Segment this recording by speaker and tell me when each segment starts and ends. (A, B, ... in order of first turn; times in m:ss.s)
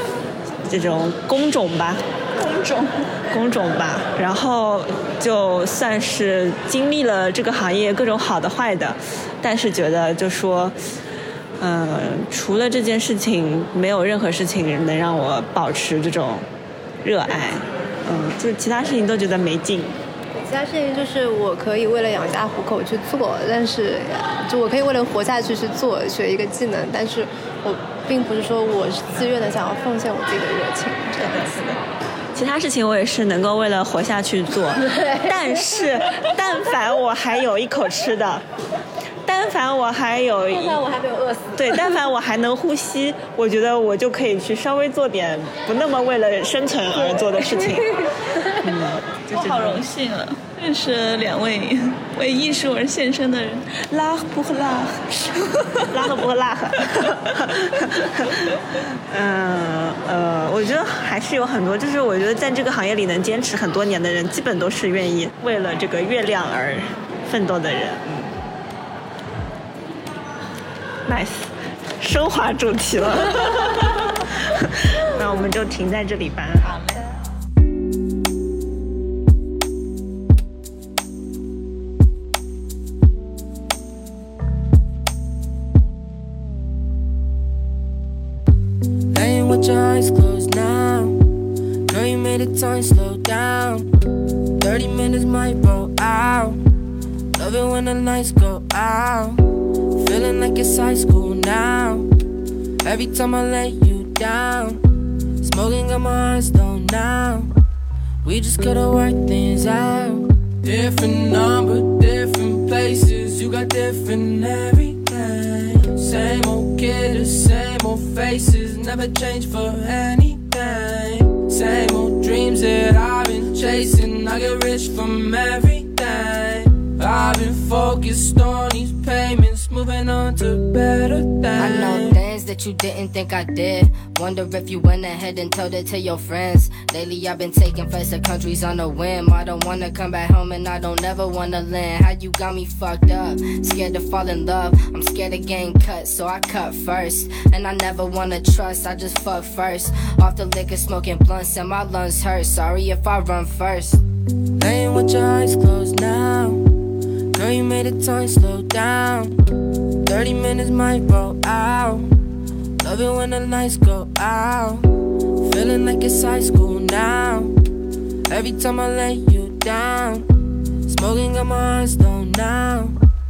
0:00.7-0:02.0 A
0:02.3-0:03.1 B
0:03.3-0:10.8 A
0:11.6-0:16.4 A
0:17.0-0:20.0 A
0:20.4-0:31.7 C
0:31.2-0:31.8 A
0:32.4-0:38.4 A
0:39.3-0:40.8 A
0:40.5-0:41.6 C
0:41.6-0:48.0 A
0:48.6-0:49.8 A
0:49.3-0:53.8 B
0:53.8-0:58.5 A
0:59.1-1:08.3 A
1:11.1-1:11.5 A
1:12.0-1:16.8 A
1:16.6-1:17.3 B
1:29.1-1:31.2 D
1:31.9-1:33.9 D
1:34.6-1:36.6 D
1:37.4-1:39.4 D
1:40.0-1:42.1 D
1:42.8-1:44.8 D
1:45.4-1:47.5 D
1:48.2-2:12.2 D
2:11.6-2:34.0 E
2:34.6-2:36.6 D
2:37.3-2:39.3 D
2:40.0-2:42.1 D
2:42.8-2:44.9 D
2:45.4-2:47.5 D
2:48.3-2:50.3 D
2:50.8-2:53.0 D